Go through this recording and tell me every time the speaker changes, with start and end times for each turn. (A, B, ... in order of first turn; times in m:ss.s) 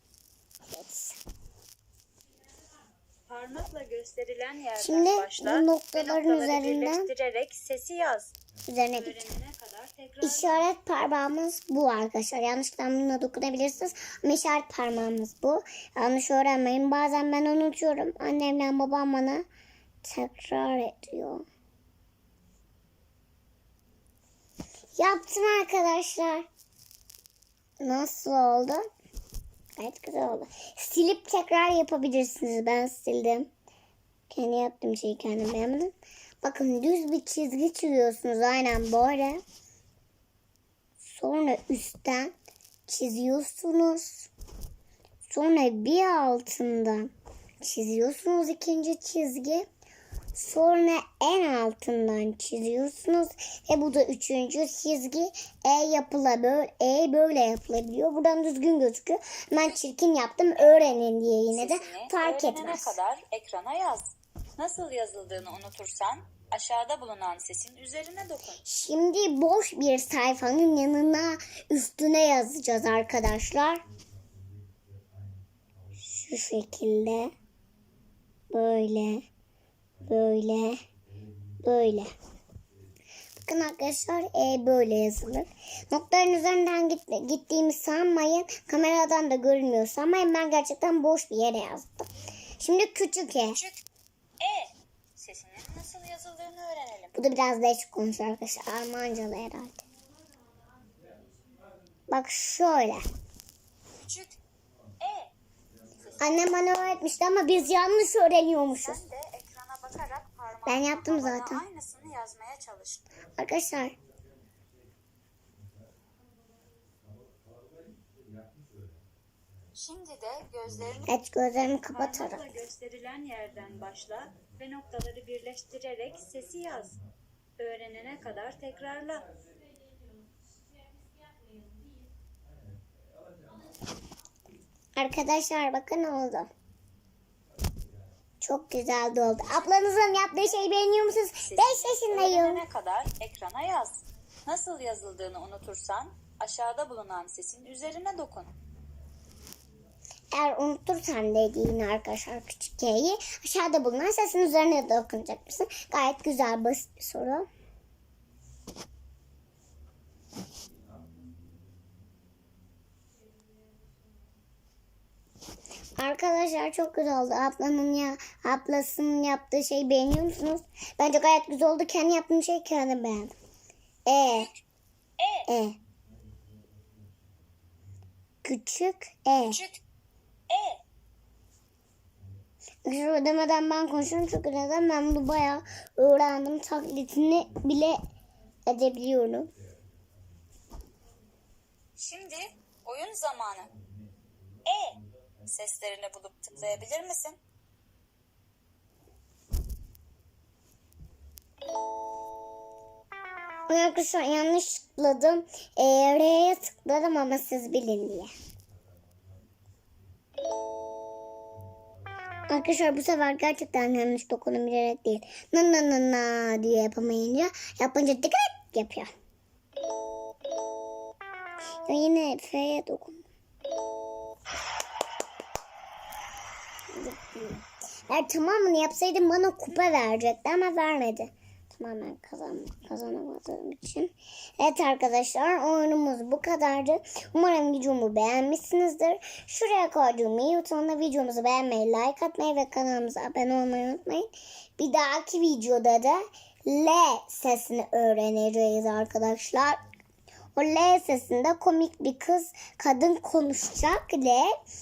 0:00.7-0:01.2 A
0:03.3-0:08.3 B
0:04.8-0:07.1 A
0:08.7-0:09.3 A
0:08.9-0:10.7 B
0:10.2-0:19.5 A
0:20.0-0:21.5 A
0:25.0-0:26.5 A
0:27.8-0:28.8 A
0:29.8-0:33.5 A
0:34.3-0:39.4 A
0:41.0-0:42.3 A
0:42.9-0:44.3 A
0:45.3-0:49.7 A
0:50.4-1:03.0 A
1:01.5-1:08.6 B
1:08.6-1:13.8 A
1:15.9-1:17.3 A
1:18.5-1:19.2 A
1:20.0-1:20.8 A
1:21.6-1:22.1 A
1:23.4-1:33.6 A
1:33.5-1:33.8 B
1:34.4-1:37.3 B
1:37.2-1:39.8 A
1:42.1-1:43.0 A
1:43.9-1:44.4 B
1:45.0-1:45.3 B
1:45.9-1:46.5 B
1:46.2-1:49.0 A
1:48.8-1:53.2 B
1:50.7-1:51.6 A
1:53.4-1:54.0 A
1:59.7-2:01.2 B
2:01.1-2:02.6 A
2:01.9-2:07.0 B
2:07.6-2:09.3 B
2:15.0-2:16.5 A
2:18.4-2:22.6 A
2:19.5-2:19.9 B
2:21.4-2:28.5 B
2:30.3-2:37.5 A
2:46.0-2:53.3 A
2:54.1-2:54.5 A
2:54.3-2:54.6 B
2:55.2-2:55.5 B
2:55.5-2:55.8 A
2:58.4-2:59.6 A
2:59.5-2:59.8 B
3:00.5-3:00.8 B
3:02.8-3:08.0 A
3:08.7-3:09.5 A
3:12.0-3:13.7 B
3:14.6-3:17.4 B
3:23.7-3:28.3 A
3:32.5-3:39.1 A
3:41.8-3:43.2 A
3:46.9-4:09.8 A
4:10.6-4:14.5 A